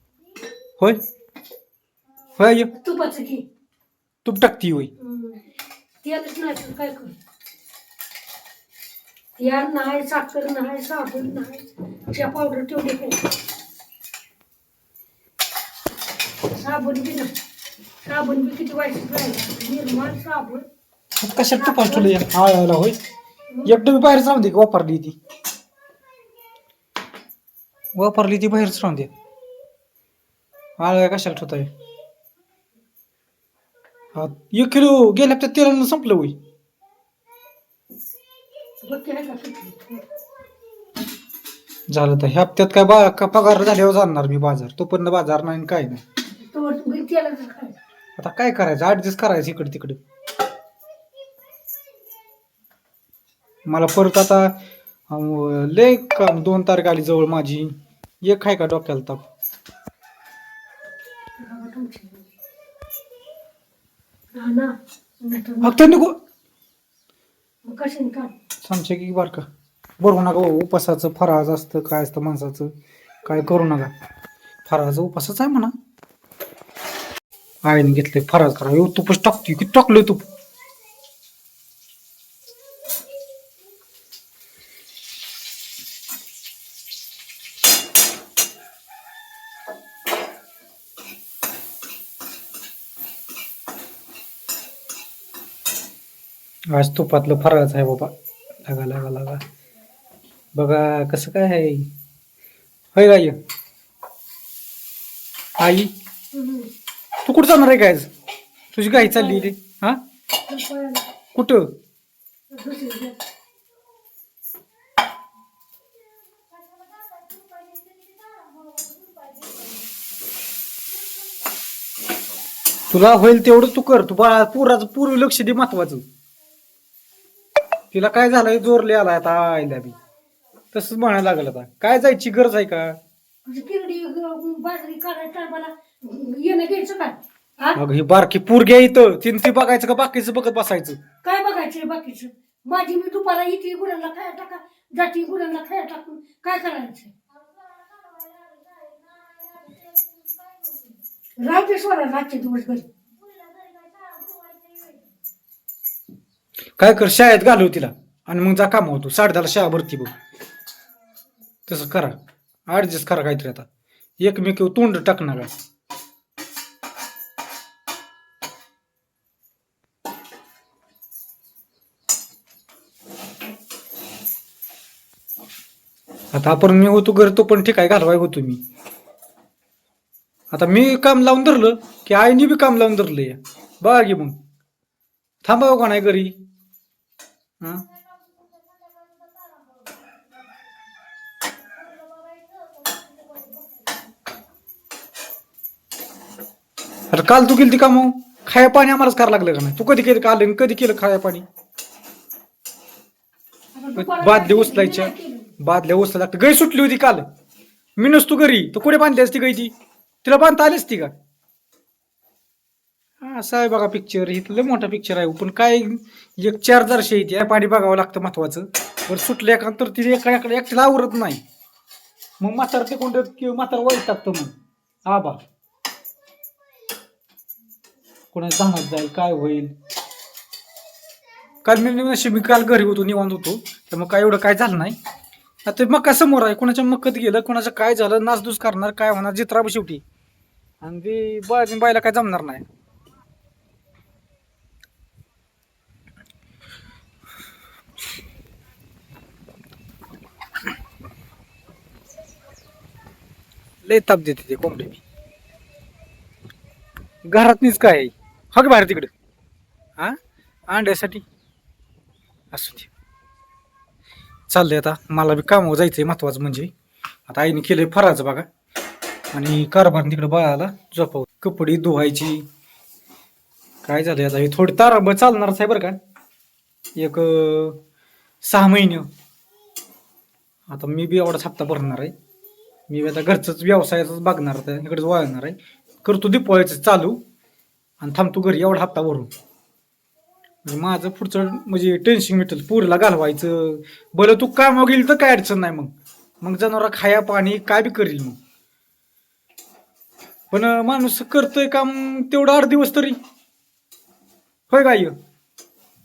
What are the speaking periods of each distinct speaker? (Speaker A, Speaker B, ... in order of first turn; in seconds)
Speaker A: 2.4-2.7, 4.2-4.9, 21.2-23.0, 23.6-25.2, 27.9-29.1, 30.8-31.7, 34.1-36.4, 41.9-46.0, 48.2-50.0, 53.7-54.6, 55.1-57.7, 58.2-59.2, 65.6-66.2, 68.6-69.5, 70.0-72.7, 73.2-73.9, 74.7-75.7, 77.6-80.2, 96.7-98.1, 98.6-99.4, 100.5-101.9, 103.0-103.4, 105.6-105.9, 107.3-108.1, 108.7-110.0, 111.3-111.7, 122.9-126.0, 127.9-130.0, 130.7-133.0, 137.8-141.0, 156.8-160.1, 161.7-162.2, 162.7-163.7, 164.2-165.5, 176.3-178.6, 180.5-184.4, 185.4-186.3, 187.6-187.9, 197.1-201.4, 204.0-207.2, 208.0-209.7, 210.2-211.1, 213.2-221.4, 222.4-224.5, 225.1-225.4, 228.3-229.7, 231.6-235.0, 235.7-240.0, 240.8-242.7, 253.8-255.0, 257.3-259.1, 260.7-261.2, 262.5-262.9, 264.5-266.7, 267.3-268.5, 269.3-272.4, 273.9-276.0, 277.0-277.8, 278.4-279.1, 280.7-282.1, 282.9-287.2, 288.0-289.3, 290.6-298.4, 300.5-303.2, 304.7-305.1
Speaker B: 2.8-3.5, 5.0-5.4, 6.0-7.2, 9.4-13.3, 16.4-17.3, 18.0-20.7, 21.5-22.1, 38.8-40.1, 46.4-47.8, 61.4-62.3, 64.3-66.0, 67.6-68.3, 106.3-106.7, 108.9-109.5, 110.5-111.1, 112.5-113.2, 117.1-119.7, 133.4-137.8, 141.2-147.1, 151.4-152.9, 153.7-154.9, 193.3-193.6, 203.8-205.5